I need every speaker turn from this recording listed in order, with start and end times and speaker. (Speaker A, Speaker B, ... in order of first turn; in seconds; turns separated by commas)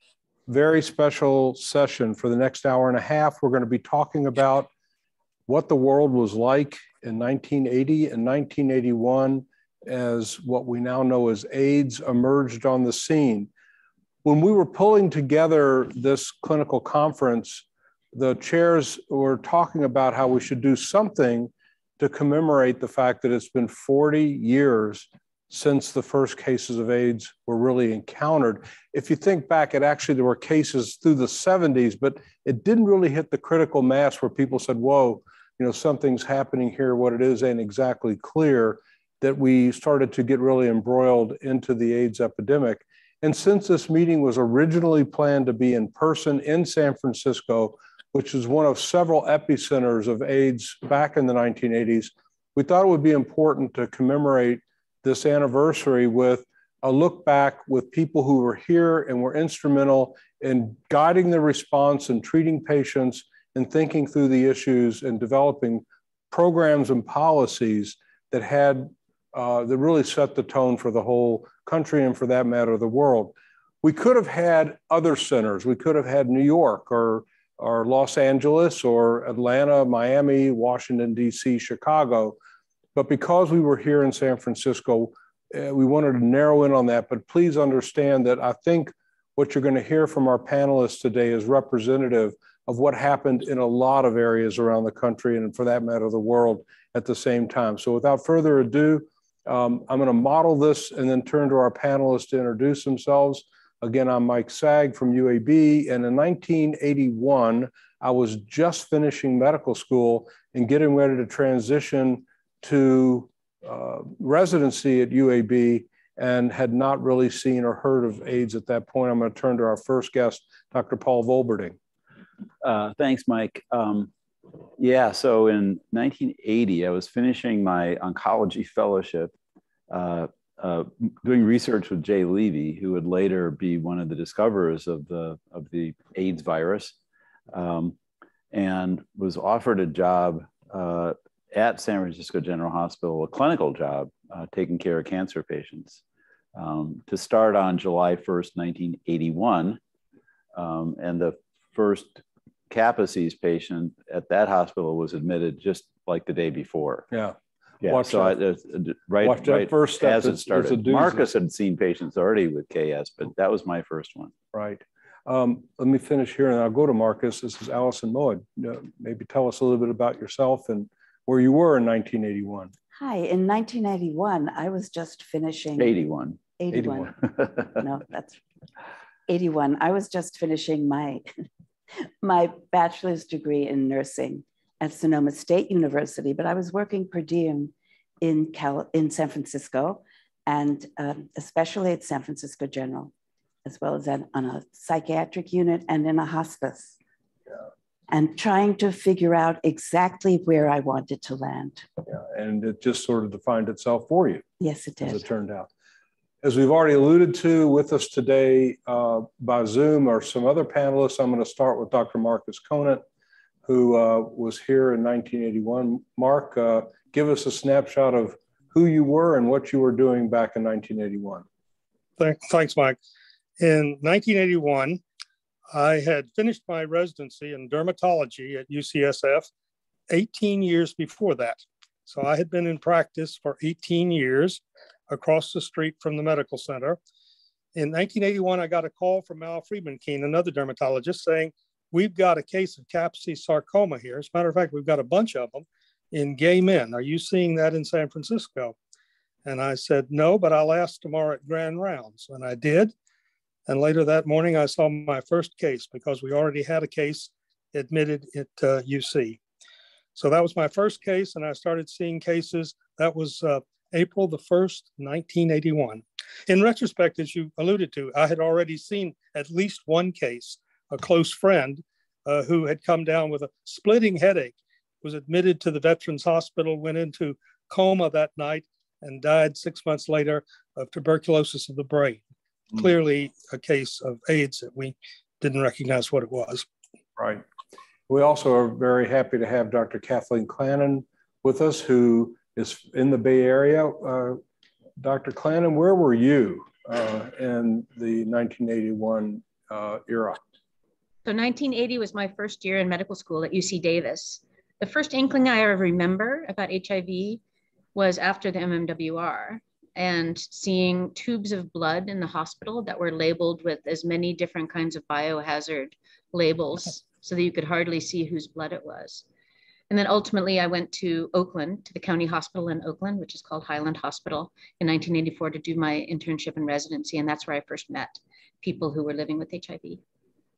Speaker A: 0.5-4.7, Speaker A: 5.5-13.5, Speaker A: 14.2-82.4, Speaker A: 83.0-121.8, Speaker B: 122.6-124.1, Speaker B: 124.8-129.3, Speaker B: 129.9-136.9, Speaker B: 137.5-138.0, Speaker B: 138.5-146.0, Speaker B: 146.6-149.8, Speaker B: 150.6-157.1, Speaker A: 157.1-158.4, Speaker B: 157.8-164.3, Speaker A: 159.2-161.2, Speaker A: 164.5-172.7, Speaker C: 173.0-175.9, Speaker B: 175.8-177.8, Speaker C: 176.6-177.1, Speaker C: 177.7-178.4, Speaker C: 179.3-181.3, Speaker C: 182.2-193.1, Speaker C: 193.7-197.0, Speaker C: 198.1-201.9, Speaker A: 202.1-204.4, Speaker C: 204.6-205.2, Speaker A: 205.0-205.7, Speaker A: 206.4-213.0, Speaker A: 213.7-221.4, Speaker D: 222.2-223.0, Speaker D: 223.6-225.0, Speaker D: 225.7-229.5, Speaker D: 230.1-237.0, Speaker D: 237.8-248.8, Speaker D: 249.4-252.9, Speaker D: 253.7-259.4, Speaker D: 260.2-282.2, Speaker D: 282.7-286.7, Speaker A: 287.2-287.4, Speaker A: 288.1-294.4, Speaker A: 295.0-300.4, Speaker E: 301.2-307.4, Speaker E: 307.9-319.2, Speaker E: 319.9-330.0